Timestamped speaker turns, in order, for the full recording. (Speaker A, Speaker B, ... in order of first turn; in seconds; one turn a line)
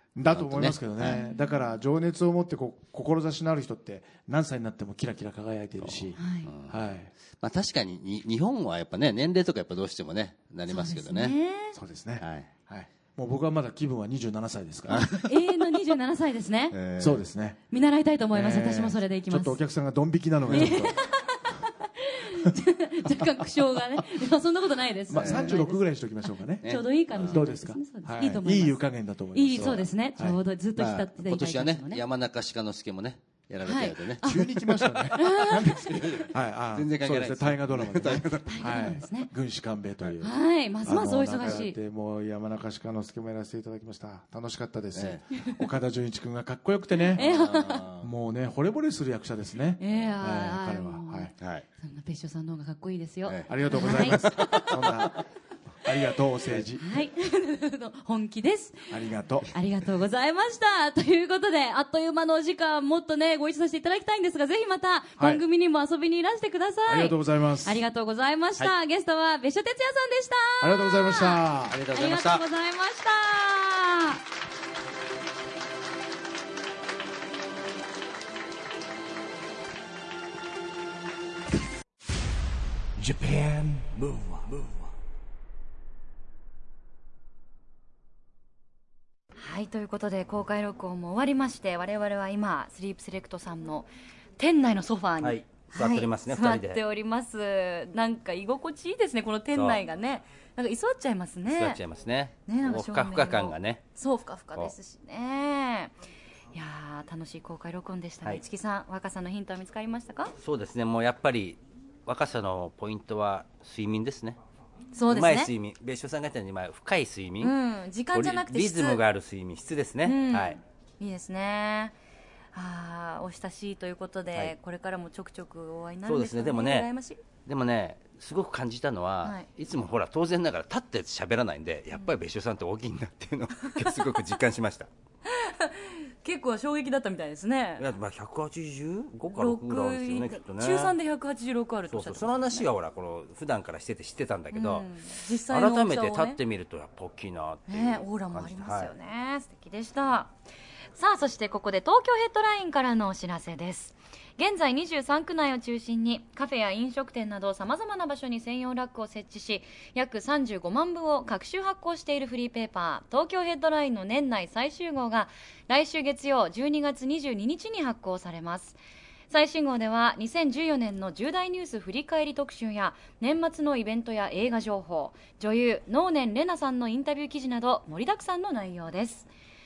Speaker A: 0.1-7.1
Speaker B: 0.2-1.2
Speaker C: 1.0-1.8
Speaker B: 5.8-11.3
Speaker C: 6.2-6.5
Speaker C: 10.7-11.8
Speaker A: 11.7-15.1
Speaker B: 12.2-12.5
Speaker B: 14.9-15.2
Speaker C: 15.1-16.8
Speaker B: 16.7-17.3
Speaker A: 17.0-17.6
Speaker C: 17.7-19.6
Speaker A: 18.3-21.0
Speaker B: 20.4-20.9
Speaker C: 20.5-25.8
Speaker A: 23.1-23.4
Speaker A: 25.1-30.4
Speaker B: 25.1-25.6
Speaker C: 26.6-28.8
Speaker B: 26.6-27.4
Speaker C: 29.3-32.0
Speaker B: 30.8-38.9
Speaker C: 33.6-34.5
Speaker A: 34.2-40.3
Speaker C: 35.1-35.9
Speaker C: 38.4-39.3
Speaker C: 40.2-41.7
Speaker A: 40.8-47.2
Speaker B: 44.9-45.2
Speaker C: 47.1-47.9
Speaker B: 47.1-48.1
Speaker A: 48.0-51.3
Speaker C: 49.8-54.2
Speaker B: 51.4-51.7
Speaker B: 53.2-55.2
Speaker A: 53.5-55.2
Speaker A: 55.8-56.9
Speaker C: 56.8-58.9
Speaker A: 58.9-59.5
Speaker C: 59.5-74.2
Speaker A: 66.9-67.8
Speaker A: 70.6-71.8
Speaker B: 71.7-72.4
Speaker D: 83.0-84.9
Speaker C: 89.3-101.8
Speaker B: 95.2-96.8
Speaker B: 99.5-99.8
Speaker B: 101.5-103.8
Speaker C: 102.5-105.9
Speaker C: 106.5-110.3
Speaker B: 110.4-114.4
Speaker C: 114.9-115.5
Speaker B: 115.1-117.5
Speaker C: 117.4-119.0
Speaker B: 118.1-120.6
Speaker C: 120.0-121.9
Speaker C: 122.5-127.2
Speaker B: 126.0-126.9
Speaker B: 127.5-134.9
Speaker C: 133.6-134.4
Speaker C: 135.3-137.9
Speaker B: 137.8-140.9
Speaker C: 139.3-142.7
Speaker B: 141.9-148.9
Speaker C: 144.5-146.4
Speaker C: 147.7-150.3
Speaker C: 150.9-168.8
Speaker C: 169.3-179.3